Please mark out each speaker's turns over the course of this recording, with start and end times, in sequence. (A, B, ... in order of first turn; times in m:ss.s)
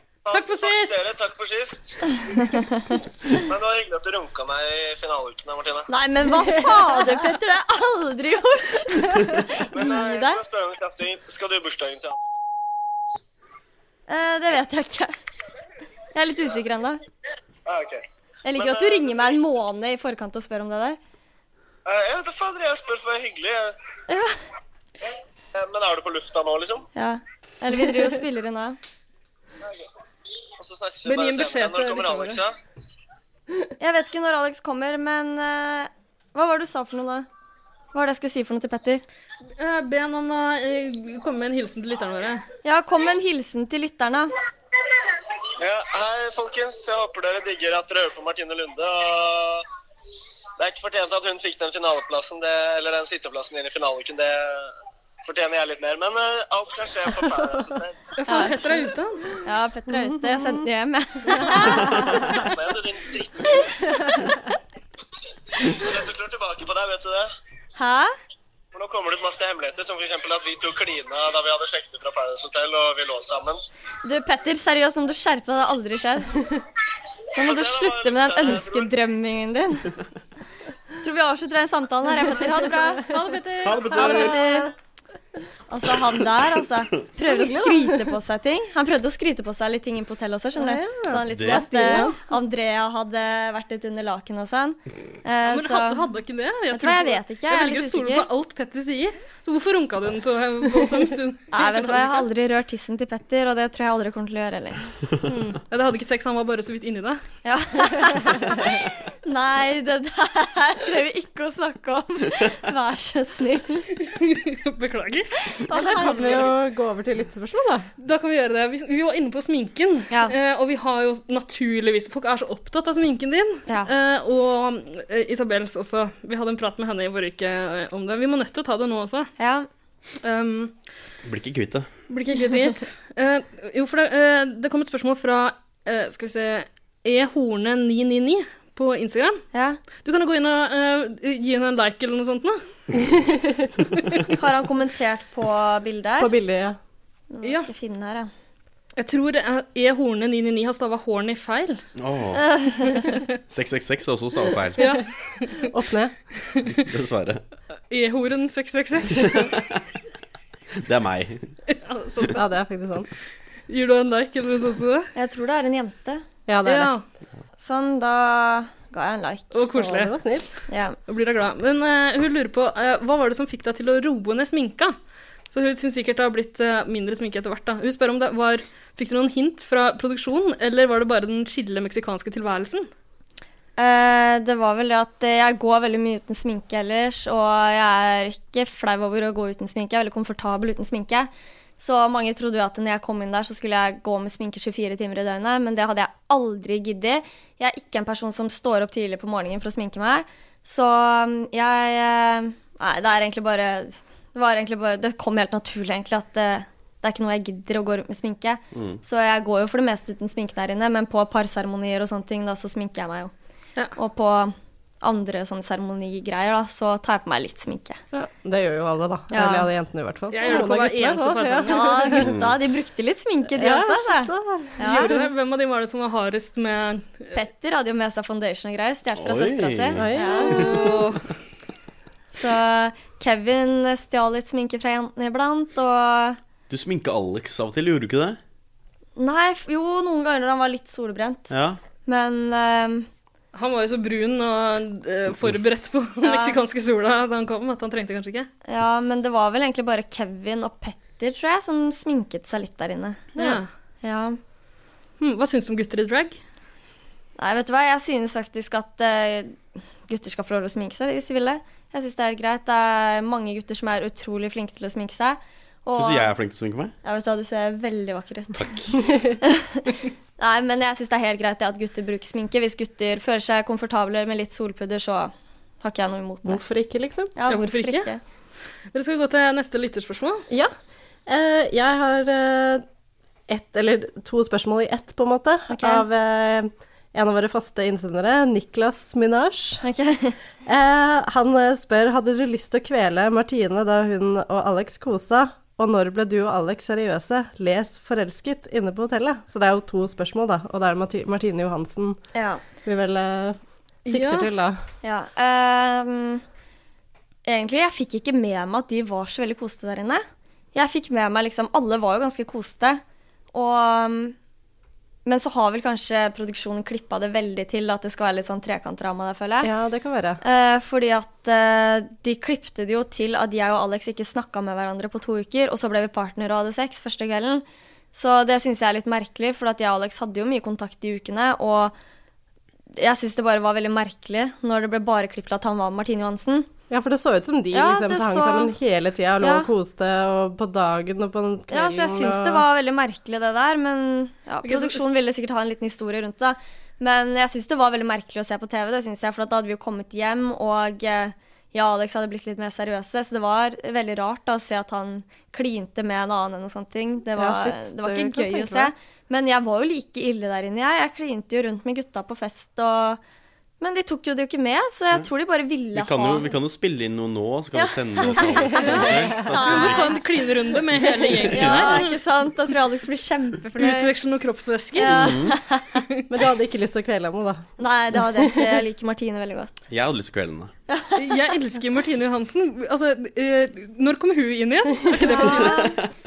0:00.2-0:02.0 A
0:00.3-0:01.2 B
0:03.5-0:05.9 A
0:05.9-0:10.4 C
0:09.7-0:12.4 A
0:14.1-0:15.1 C
0:16.1-0:17.0 C
0:17.6-0:18.0 A
0:18.4-0:21.0 C
0:18.5-0:19.6 A
0:21.9-0:23.7 A
0:24.1-0:24.4 C
0:25.0-0:26.9 A
0:26.9-0:28.8 C
0:30.6-0:32.5 A
0:31.0-0:32.4 B
0:33.8-0:37.3 C
0:37.9-0:39.0 C
0:39.6-0:42.4 B
0:42.6-0:44.3 C
0:45.6-0:49.6 A
0:50.6-0:54.7 A
0:55.2-0:58.0 A
0:58.2-0:59.2 B
0:58.3-0:58.9 C
0:59.4-1:02.3 C
1:02.3-1:03.7 A
1:05.6-1:07.3 A
1:07.8-1:08.1 C
1:08.7-1:13.6 A
1:14.0-1:16.3 C
1:17.4-1:19.8 C
1:17.4-1:18.9 A
1:21.0-1:23.0 C
1:23.0-1:24.3 B
1:23.6-1:24.4 D
1:23.9-1:24.7 C
1:25.7-1:36.0 C
1:27.2-1:28.1 E
1:30.6-1:32.3 E
1:31.3-1:31.6 D
1:35.4-1:42.3 B
1:36.7-1:38.3 C
1:41.5-1:44.8 C
1:45.3-1:47.2 B
1:47.4-1:48.6 C
1:49.2-1:53.8 C
1:54.0-1:55.4 B
1:55.6-1:56.5 C
1:55.7-1:57.9 E
1:55.9-1:56.5 B
1:58.0-2:09.3 B
2:09.4-2:09.7 C
2:10.2-2:10.7 B
2:11.2-2:11.9 D
2:12.1-2:19.4 B
2:19.5-2:19.8 C
2:20.0-2:22.6 B
2:23.2-2:23.7 E
2:24.4-2:26.3 C
2:26.2-2:26.8 E
2:27.3-2:28.3 C
2:27.4-2:27.7 B
2:29.0-2:31.8 B
2:32.0-2:32.4 D
2:32.5-2:33.0 C
2:33.5-2:34.8 D
2:34.8-2:35.7 B
2:35.7-2:36.1 E
2:36.4-2:36.7 B
2:36.8-2:37.4 D
2:37.9-2:39.5 B
2:39.3-2:39.6 D
2:40.8-2:41.4 D
2:41.7-2:42.4 B
2:42.4-2:43.1 E
2:43.7-2:45.1 B
2:45.2-2:46.2 C
2:46.5-2:46.9 E
2:46.6-2:47.0 B
2:47.6-2:49.6 C
2:49.5-2:50.2 B
2:49.7-2:50.4 E
2:50.7-2:51.0 C
2:51.1-2:54.9 B
2:55.5-3:02.9 B
3:03.8-3:33.3 C
3:34.0-3:38.0 C
3:38.1-3:42.2 E
3:39.3-3:39.7 C
3:40.3-3:41.9 B
3:41.7-3:45.2 C
3:42.2-3:42.5 D
3:43.5-3:45.2 E
3:44.8-3:47.4 B
3:47.3-3:50.6 C
3:49.2-3:50.7 D
3:50.0-3:50.5 E
3:50.4-3:51.2 B
3:52.3-3:56.4 C
3:56.7-3:58.4 D
3:59.2-4:01.5 C
4:01.5-4:01.8 D
4:02.1-4:03.1 C
4:03.5-4:08.5 B
4:06.2-4:06.6 C
4:08.7-4:14.4 C
4:13.4-4:13.7 B
4:15.2-4:16.4 B
4:17.4-4:26.3 C
4:25.9-4:26.9 D
4:27.0-4:28.6 C
4:28.6-4:28.9 D
4:29.4-4:36.6 C
4:36.4-4:37.3 E
4:37.4-4:38.2 C
4:37.5-4:38.1 B
4:38.9-4:40.4 B
4:41.3-4:42.8 E
4:43.5-4:49.8 E
4:45.7-4:46.0 C
4:49.8-4:50.4 C
4:50.6-5:02.2 E
5:02.3-5:02.6 C
5:02.8-5:04.8 E
5:04.1-5:04.5 B
5:05.0-5:06.4 C
5:07.4-5:10.2 C
5:10.7-5:13.0 C
5:13.5-5:14.4 C
5:15.3-5:19.7 C
5:19.6-5:20.4 E
5:20.4-5:31.9 C
5:33.0-5:36.7 C
5:36.9-5:42.7 E
5:37.7-5:38.7 C
5:39.4-5:39.7 C
5:41.7-6:03.2 C
5:44.6-5:45.1 B
5:57.3-5:58.9 E
6:03.8-6:06.5 C
6:05.9-6:10.1 D
6:07.7-6:10.2 C
6:08.3-6:09.4 E
6:08.8-6:12.2 B
6:11.4-6:14.1 C
6:13.8-6:15.4 B
6:15.0-6:15.8 C
6:15.0-6:15.6 D
6:16.3-6:17.7 E
6:17.8-6:19.8 C
6:18.4-6:18.8 E
6:19.9-6:20.7 D
6:21.2-6:25.9 B
6:25.1-6:25.7 E
6:25.3-6:26.0 C